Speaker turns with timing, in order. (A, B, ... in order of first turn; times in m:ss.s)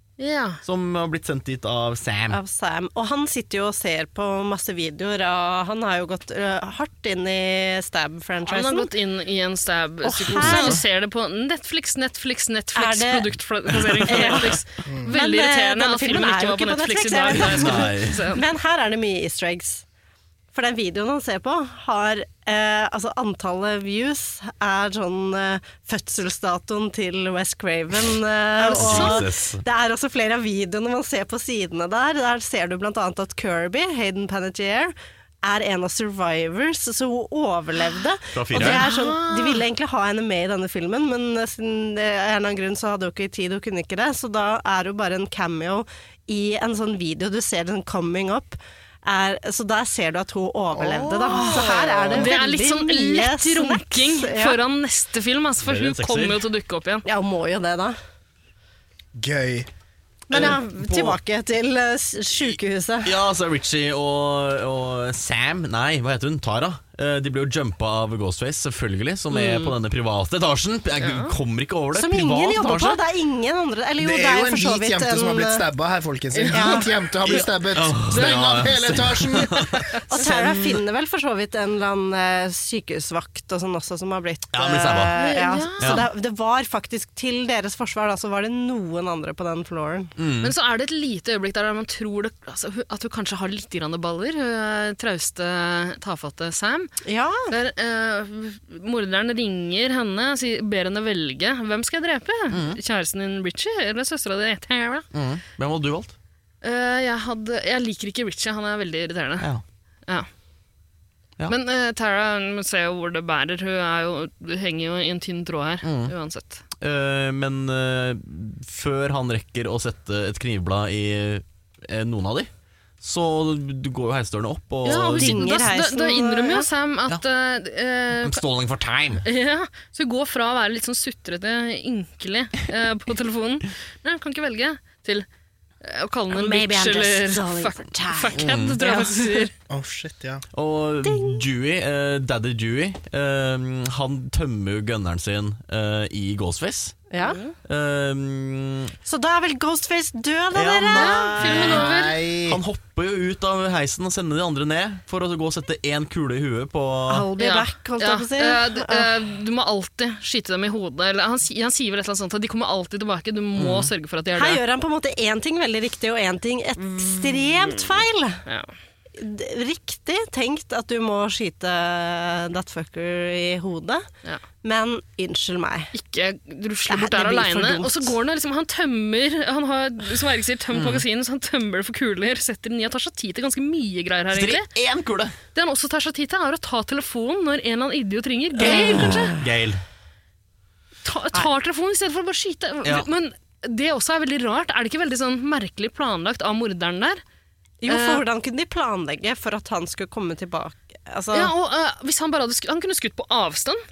0:00.2-0:00.6 A
0:00.6-0:02.4 B
0:02.3-0:08.9 C
0:08.5-0:18.4 A
0:10.0-0:10.8 C
0:10.3-0:10.8 B
0:12.8-0:13.3 C
0:13.8-0:14.5 B
0:14.0-0:19.8 C
0:14.8-0:15.1 D
0:17.3-0:18.2 B
0:20.5-0:54.6 C
0:28.6-0:29.2 A
0:28.7-0:29.6 B
0:38.3-0:38.8 B
0:38.5-0:39.6 A
0:50.7-0:52.3 D
0:51.3-0:57.0 A
0:55.6-0:56.4 B
0:57.0-0:58.0 C
0:59.1-0:59.7 D
1:00.3-1:03.2 C
1:00.3-1:01.2 B
1:02.4-1:13.0 B
1:09.3-1:09.7 C
1:11.0-1:11.3 A
1:11.9-1:15.6 C
1:14.0-1:19.8 D
1:16.3-1:17.4 A
1:16.5-1:16.9 C
1:17.2-1:20.8 B
1:18.1-1:18.9 A
1:20.1-1:30.1 C
1:24.5-1:25.2 B
1:25.1-1:26.0 A
1:25.8-1:26.1 B
1:30.2-1:30.5 B
1:30.4-1:36.9 A
1:37.0-1:37.5 C
1:37.5-1:45.0 A
1:42.5-1:42.8 B
1:45.1-1:46.1 B
1:46.6-1:49.5 A
1:51.5-1:56.6 A
1:55.8-1:56.1 B
1:56.8-2:02.5 B
2:03.0-2:05.4 B
2:04.8-2:08.4 A
2:05.1-2:06.7 C
2:08.2-2:09.2 B
2:09.2-2:15.2 A
2:15.8-2:19.5 A
2:16.3-2:19.5 C
2:18.4-2:18.8 B
2:19.7-2:20.4 D
2:20.5-2:27.0 B
2:21.0-2:21.4 C
2:27.1-2:27.5 C
2:27.6-2:28.9 B
2:29.0-2:31.6 C
2:30.5-2:31.9 B
2:30.9-2:32.2 A
2:31.4-2:32.6 D
2:32.4-2:37.3 B
2:37.1-2:39.1 C
2:37.4-2:44.6 A
2:43.6-2:43.9 B
2:44.3-2:48.4 C
2:46.8-2:48.7 A
2:49.2-2:54.0 C
2:54.6-2:55.9 C
2:55.9-3:04.7 A
2:56.9-2:58.2 C
3:00.7-3:01.0 B
3:04.3-3:05.3 B
3:05.5-3:09.3 A
3:08.6-3:09.4 C
3:08.6-3:09.8 B
3:11.0-3:17.2 A
3:17.8-3:21.5 C
3:17.9-3:18.2 A
3:21.3-3:23.8 A